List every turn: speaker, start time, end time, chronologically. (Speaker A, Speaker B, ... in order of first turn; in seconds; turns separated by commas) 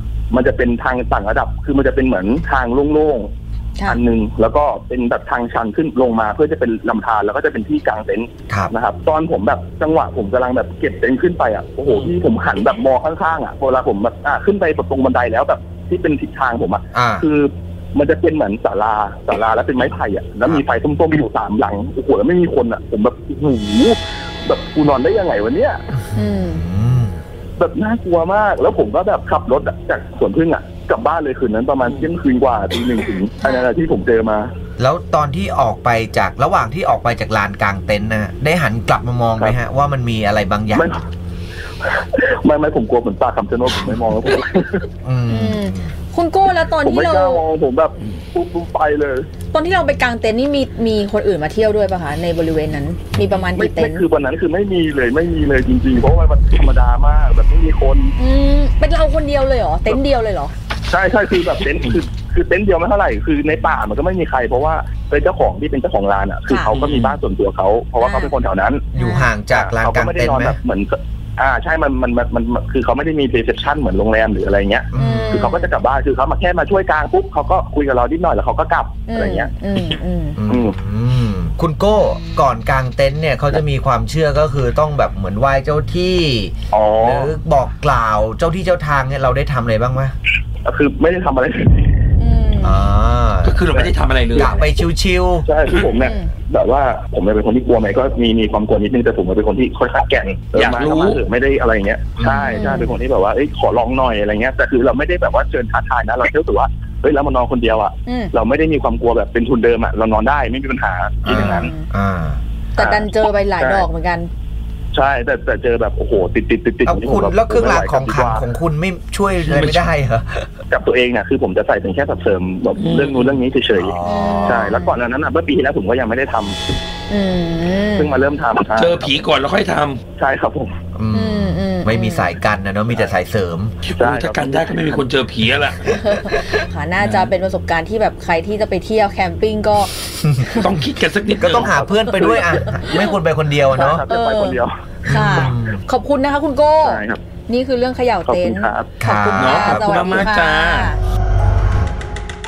Speaker A: 0.3-3.3, Speaker A: 3.9-25.8, Speaker B: 16.9-17.2, Speaker B: 26.1-27.2, Speaker C: 26.2-26.6, Speaker A: 27.6-34.5, Speaker C: 33.4-33.7, Speaker B: 34.8-41.0, Speaker A: 40.7-41.0, Speaker A: 42.0-44.9, Speaker B: 45.0-45.9, Speaker C: 45.3-47.4, Speaker A: 46.8-49.3, Speaker C: 49.5-54.0, Speaker A: 53.5-58.1, Speaker C: 58.2-60.5, Speaker A: 60.9-68.9, Speaker C: 66.5-67.2, Speaker C: 68.0-68.4, Speaker B: 68.9-70.6, Speaker C: 69.0-69.3, Speaker A: 69.5-79.5, Speaker B: 74.9-75.5, Speaker C: 75.0-75.7, Speaker C: 79.1-80.4, Speaker B: 80.4-90.1, Speaker A: 80.5-80.8, Speaker C: 82.0-82.5, Speaker A: 86.7-87.3, Speaker A: 90.6-91.9, Speaker C: 92.2-92.8, Speaker B: 92.6-93.6, Speaker D: 93.4-94.7, Speaker B: 94.3-95.5, Speaker A: 95.4-111.7, Speaker D: 95.7-96.0, Speaker C: 96.1-96.3, Speaker D: 100.5-101.2, Speaker B: 102.2-102.8, Speaker C: 102.5-102.9, Speaker C: 108.1-108.3, Speaker B: 111.2-112.4, Speaker C: 111.3-111.9, Speaker A: 112.8-113.1, Speaker C: 112.8-114.3, Speaker A: 113.6-113.9, Speaker A: 114.9-118.4, Speaker B: 116.8-120.5, Speaker D: 119.5-119.9, Speaker A: 120.7-126.6, Speaker D: 122.8-123.4, Speaker B: 123.8-124.8, Speaker C: 124.0-125.0, Speaker C: 127.1-128.1, Speaker A: 128.0-129.2, Speaker D: 128.8-130.0, Speaker A: 130.2-130.7, Speaker B: 130.9-133.8, Speaker C: 131.1-132.3, Speaker A: 132.9-133.2, Speaker D: 133.8-136.0, Speaker A: 134.0-135.0, Speaker C: 136.0-139.9, Speaker B: 140.3-140.6, Speaker D: 140.5-141.8, Speaker B: 141.4-144.1, Speaker A: 141.4-143.1, Speaker C: 142.6-143.1, Speaker A: 143.7-144.7, Speaker C: 144.1-151.0, Speaker B: 145.1-145.8, Speaker A: 146.8-147.2, Speaker A: 148.3-148.9, Speaker B: 149.0-150.1, Speaker D: 149.4-150.9